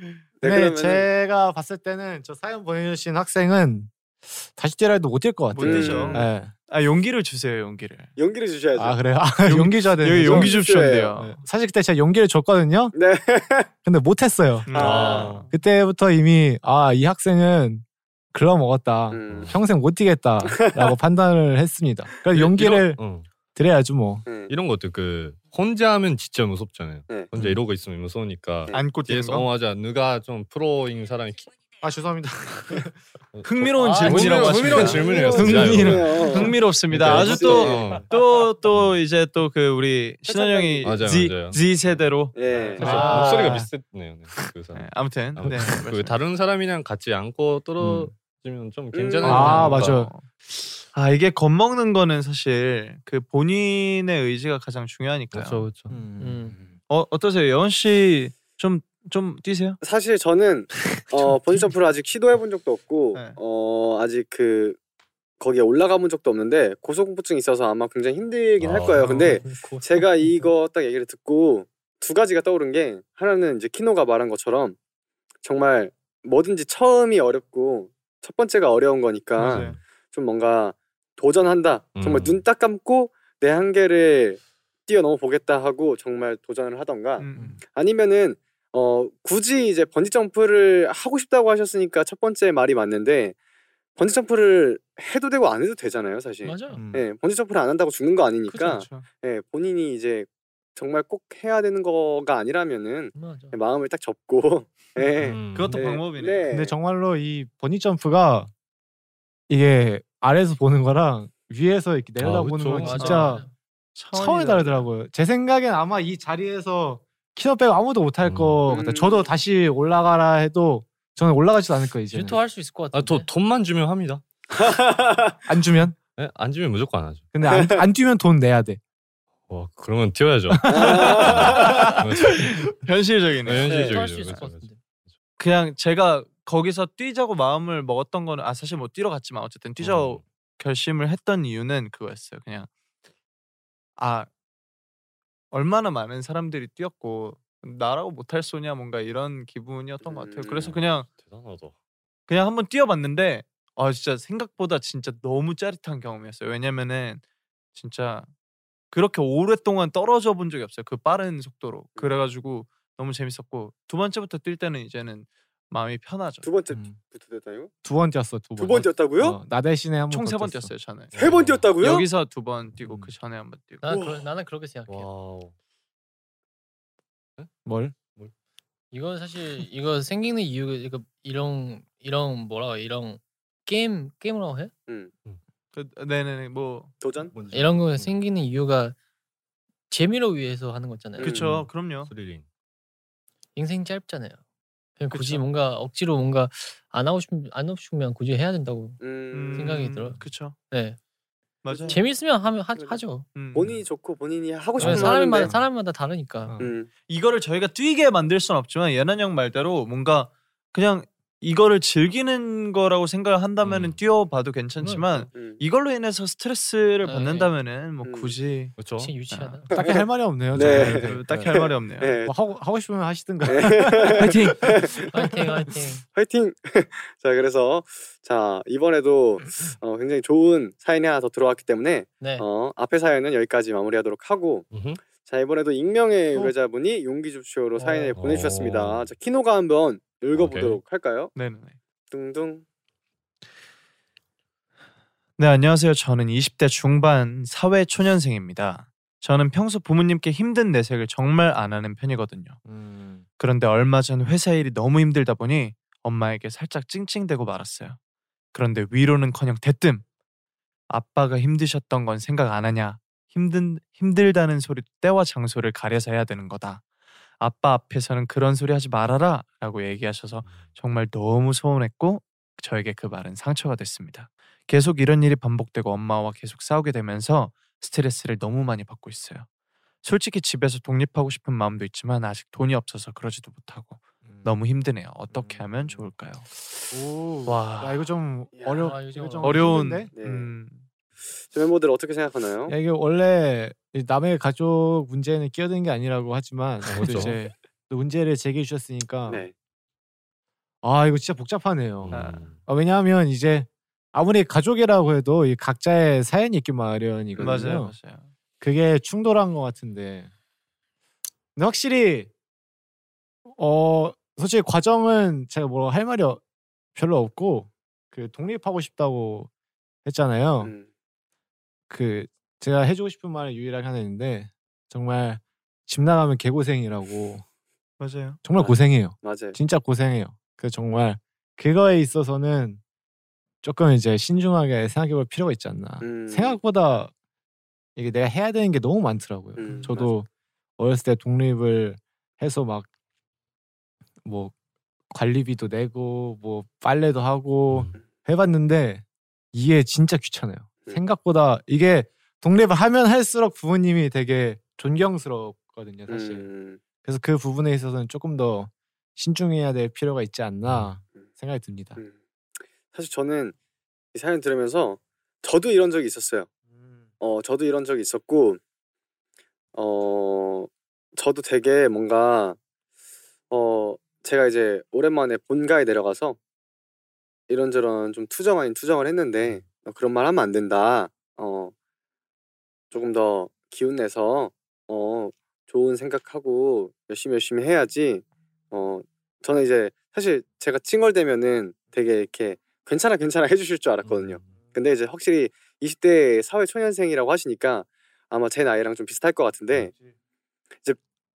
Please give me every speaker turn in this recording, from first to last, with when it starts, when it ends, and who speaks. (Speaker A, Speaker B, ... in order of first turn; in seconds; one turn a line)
Speaker A: 0.4-1.1
Speaker B: 0.4-6.5
Speaker C: 5.5-8.1
Speaker A: 5.6-6.2
Speaker A: 8.2-9.0
Speaker B: 8.8-10.6
Speaker C: 9.4-11.4
Speaker A: 10.2-11.1
Speaker B: 11.2-12.9
Speaker A: 12.9-13.7
Speaker B: 13.8-14.7
Speaker C: 14.7-15.5
Speaker A: 14.7-15.4
Speaker D: 14.7-15.5
Speaker B: 15.4-23.0
Speaker A: 19.1-19.6
Speaker D: 19.3-19.6
Speaker A: 20.4-20.9
Speaker D: 22.3-23.3
Speaker B: 23.6-24.2
Speaker A: 24.3-24.5
Speaker D: 24.5-31.5
Speaker C: 28.7-29.5
Speaker B: 31.8-33.0
Speaker D: 33.4-38.1
Speaker C: 33.4-43.5
Speaker E: 33.8-34.7
Speaker A: 34.7-38.0
Speaker D: 38.7-39.0
Speaker A: 40.3-40.9
Speaker D: 40.8-50.0
Speaker A: 42.4-42.9
Speaker B: 42.8-43.7
Speaker C: 44.8-46.2
Speaker B: 47.8-48.1
Speaker A: 48.9-49.5
Speaker C: 49.2-50.3
Speaker B: 49.2-50.1
Speaker C: 50.9-55.7
Speaker D: 55.3-56.0
Speaker B: 55.9-56.8
Speaker E: 56.2-56.6
Speaker C: 56.9-59.8
Speaker A: 59.8-64.8
Speaker C: 63.1-63.4
Speaker A: 65.4-74.8
Speaker D: 68.6-69.4
Speaker C: 69.0-69.4
Speaker E: 69.1-70.5
Speaker A: 75.4-93.4
Speaker C: 79.4-79.8
Speaker D: 79.5-79.7
Speaker D: 82.0-82.4
Speaker C: 87.2-87.6
Speaker A: 94.0-106.8
Speaker E: 96.4-96.8
Speaker B: 96.7-97.1
Speaker C: 98.6-99.1
Speaker E: 103.2-103.6
Speaker D: 105.2-105.8
Speaker C: 105.5-106.5
Speaker B: 106.5-108.5
Speaker B: 109.5-113.5
Speaker D: 112.2-113.2
Speaker E: 112.8-113.5
Speaker C: 113.0-113.4
Speaker C: 114.0-114.9
Speaker B: 114.1-122.4
Speaker D: 118.2-118.6
Speaker A: 118.7-119.3
Speaker E: 122.1-123.3
Speaker D: 122.9-124.2
Speaker A: 124.5-125.4
Speaker B: 125.5-126.0
Speaker D: 126.2-127.3
Speaker B: 127.3-128.8
Speaker A: 127.5-127.8
Speaker D: 129.5-132.7
Speaker C: 130.5-133.9
Speaker A: 130.7-131.9
Speaker D: 133.4-134.7
Speaker E: 133.7-134.8
Speaker C: 135.4-142.7
Speaker D: 139.8-140.2
Speaker C: 144.0-144.3
Speaker C: 145.5-151.1
Speaker A: 150.0-150.8
Speaker D: 150.6-151.7
Speaker C: 152.3-157.2
Speaker C: 157.7-158.3
Speaker C: 158.9-166.5
Speaker A: 166.4-167.7
Speaker B: 166.7-167.0
Speaker B: 167.8-170.7
Speaker A: 168.6-169.4
Speaker C: 170.1-171.2
Speaker D: 171.1-171.7
Speaker A: 171.2-172.1
Speaker C: 171.8-174.0
Speaker B: 172.8-173.1
Speaker E: 173.8-175.1
Speaker A: 173.9-174.2
Speaker D: 174.9-175.5
Speaker B: 177.7-177.9
Speaker E: 178.9-184.7
Speaker C: 185.7-186.9
Speaker A: 187.0-187.3
Speaker D: 187.3-188.2
Speaker E: 187.5-189.0
Speaker E: 189.9-191.4
Speaker A: 191.2-191.7
Speaker C: 191.2-192.1
Speaker D: 192.1-192.5
Speaker E: 193.6-194.4
Speaker E: 195.0-199.0
Speaker C: 195.1-195.4
Speaker A: 199.0-199.8
Speaker C: 199.3-200.6
Speaker E: 199.5-201.0
Speaker C: 201.6-202.0
Speaker A: 201.7-202.0
Speaker E: 201.9-203.3
Speaker C: 203.3-203.8
Speaker A: 203.5-205.5
Speaker E: 204.8-206.6
Speaker C: 204.8-205.1
Speaker B: 206.5-206.7
Speaker A: 206.6-206.9
Speaker C: 207.1-218.8
Speaker D: 213.6-214.0
Speaker A: 215.3-215.6
Speaker E: 217.0-217.5
Speaker A: 218.1-218.4
Speaker D: 218.8-219.1
Speaker E: 219.0-219.7
Speaker C: 219.3-219.7
Speaker B: 219.7-221.6
Speaker A: 219.7-220.0
Speaker A: 220.6-222.3
Speaker D: 220.6-220.9
Speaker C: 220.7-222.2
Speaker B: 222.2-224.5
Speaker A: 223.5-225.0
Speaker C: 224.2-224.6
Speaker E: 225.1-226.0
Speaker A: 226.2-241.3
Speaker E: 232.2-232.4
Speaker D: 234.7-235.0
Speaker E: 237.8-238.2
Speaker D: 238.2-239.1
Speaker D: 240.3-240.8
Speaker C: 241.3-241.8
Speaker A: 242.1-242.7
Speaker C: 245.4-252.6
Speaker B: 252.7-253.2
Speaker C: 253.4-258.0
Speaker C: 258.5-260.1
Speaker C: 260.9-266.8
Speaker C: 267.4-279.5
Speaker C: 280.0-286.8
Speaker B: 284.2-284.6
Speaker B: 285.3-286.1
Speaker B: 286.9-290.1
Speaker C: 287.4-288.1
Speaker A: 288.6-288.9
Speaker E: 288.8-289.7
Speaker C: 289.4-290.9
Speaker A: 290.1-290.5
Speaker A: 291.4-292.8
Speaker B: 292.7-299.4
Speaker D: 296.9-297.4
Speaker C: 297.0-297.5
Speaker A: 299.3-299.5
Speaker B: 300.8-307.9
Speaker D: 302.0-302.6
Speaker C: 302.1-302.5
Speaker A: 307.4-307.7
Speaker C: 307.4-308.3
Speaker B: 308.6-310.3
Speaker B: 311.6-312.3
Speaker B: 313.5-316.4
Speaker B: 316.9-319.5
Speaker B: 320.1-320.7
Speaker A: 320.6-320.9
Speaker B: 321.9-327.4
Speaker C: 328.0-328.4
Speaker B: 328.4-332.8
Speaker A: 328.5-329.6
Speaker B: 333.6-337.1
Speaker A: 336.0-336.6
Speaker B: 338.0-342.9
Speaker A: 339.6-340.1
Speaker B: 344.2-344.5
Speaker B: 345.1-356.5
Speaker D: 347.7-348.0
Speaker A: 356.1-356.8
Speaker B: 357.0-362.0
Speaker A: 362.0-363.6
Speaker A: 364.1-366.5
Speaker B: 366.7-367.1
Speaker A: 367.2-368.6
Speaker A: 369.8-372.6
Speaker A: 373.5-376.4
Speaker A: 377.5-381.7
Speaker A: 382.9-399.9
Speaker D: 394.0-394.6
Speaker B: 399.7-400.1